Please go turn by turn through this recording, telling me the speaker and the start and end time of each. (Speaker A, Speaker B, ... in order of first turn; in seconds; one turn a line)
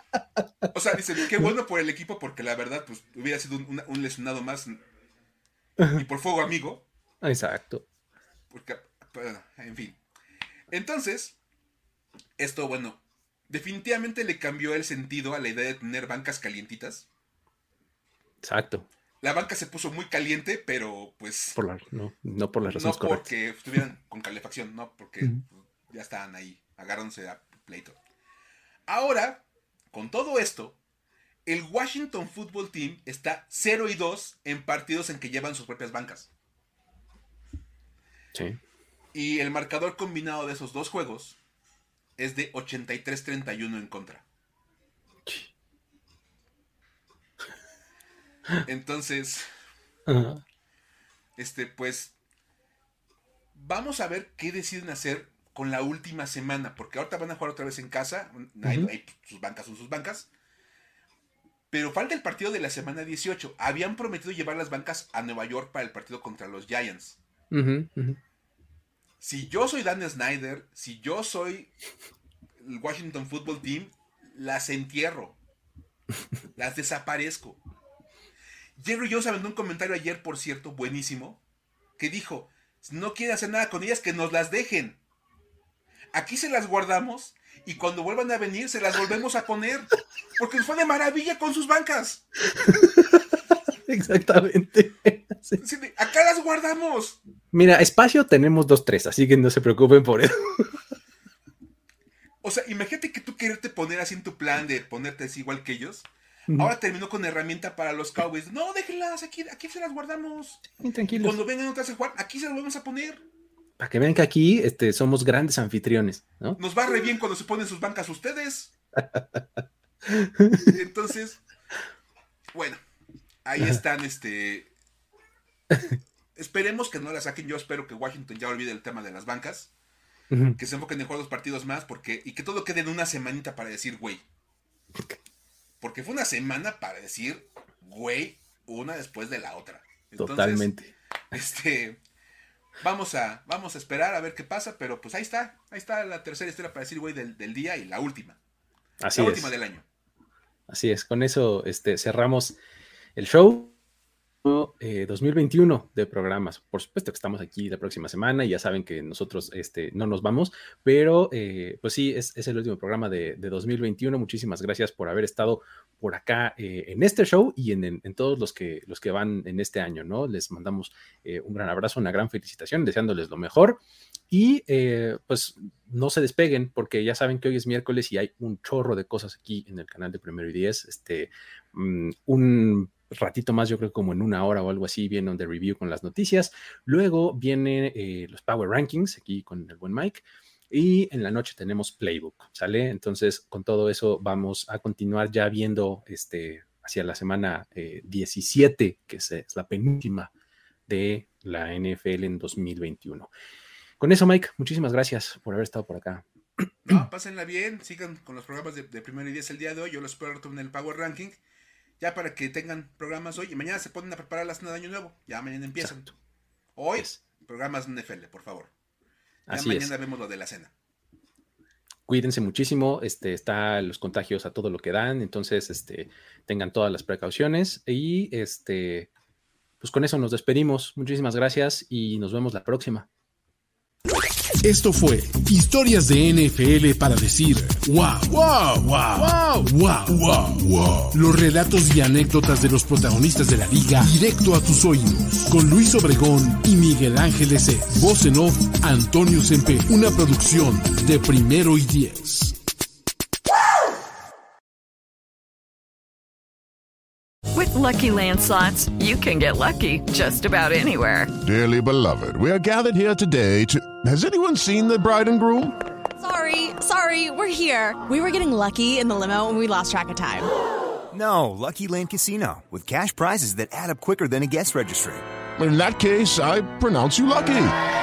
Speaker A: 0.7-4.8
Speaker B: 1.2-1.5
Speaker A: 5.9-6.8
Speaker B: 7.2-7.8
Speaker A: 8.5-10.0
Speaker A: 10.7-11.4
Speaker A: 12.4-17.1
Speaker B: 18.4-18.9
Speaker A: 19.2-21.6
Speaker B: 21.6-23.3
Speaker A: 22.6-28.0
Speaker A: 28.9-30.8
Speaker A: 31.4-36.3
Speaker B: 38.3-38.6
Speaker A: 39.1-41.4
Speaker A: 42.2-44.2
Speaker A: 48.6-49.5
Speaker B: 50.1-50.4
Speaker A: 51.4-52.1
Speaker A: 53.5-60.3
Speaker B: 58.6-58.9
Speaker A: 61.7-67.2
Speaker B: 67.5-68.2
Speaker A: 69.2-71.7
Speaker A: 72.6-75.4
Speaker A: 76.5-77.6
Speaker A: 78.8-81.4
Speaker A: 82.0-85.0
Speaker A: 86.1-92.2
Speaker B: 92.5-95.6
Speaker A: 95.6-97.2
Speaker B: 97.5-100.8
Speaker A: 102.4-110.6
Speaker B: 110.7-111.4
Speaker A: 111.2-113.2
Speaker B: 113.8-116.6
Speaker A: 116.6-118.7
Speaker B: 119.0-120.7
Speaker A: 120.7-121.4
Speaker A: 122.5-122.8
Speaker A: 123.4-124.7
Speaker B: 125.7-126.0
Speaker A: 126.3-129.7
Speaker B: 130.3-130.6
Speaker A: 130.6-134.2
Speaker A: 135.8-140.7
Speaker B: 140.2-140.9
Speaker A: 141.3-142.0
Speaker A: 142.8-148.4
Speaker B: 149.0-149.5
Speaker A: 149.1-149.8
Speaker B: 150.7-152.6
Speaker B: 153.2-153.7
Speaker B: 154.4-200.3
Speaker B: 200.9-203.3
Speaker B: 204.0-207.0
Speaker A: 206.8-211.4
Speaker A: 212.0-216.1
Speaker B: 215.8-216.1
Speaker A: 216.8-218.7
Speaker B: 219.5-219.9
Speaker A: 219.5-220.7
Speaker B: 222.1-229.1
Speaker B: 229.8-233.1
Speaker C: 234.6-252.6
Speaker D: 257.5-261.3
Speaker E: 261.4-265.8
Speaker F: 266.2-270.5
Speaker G: 271.1-275.2
Speaker E: 275.6-277.7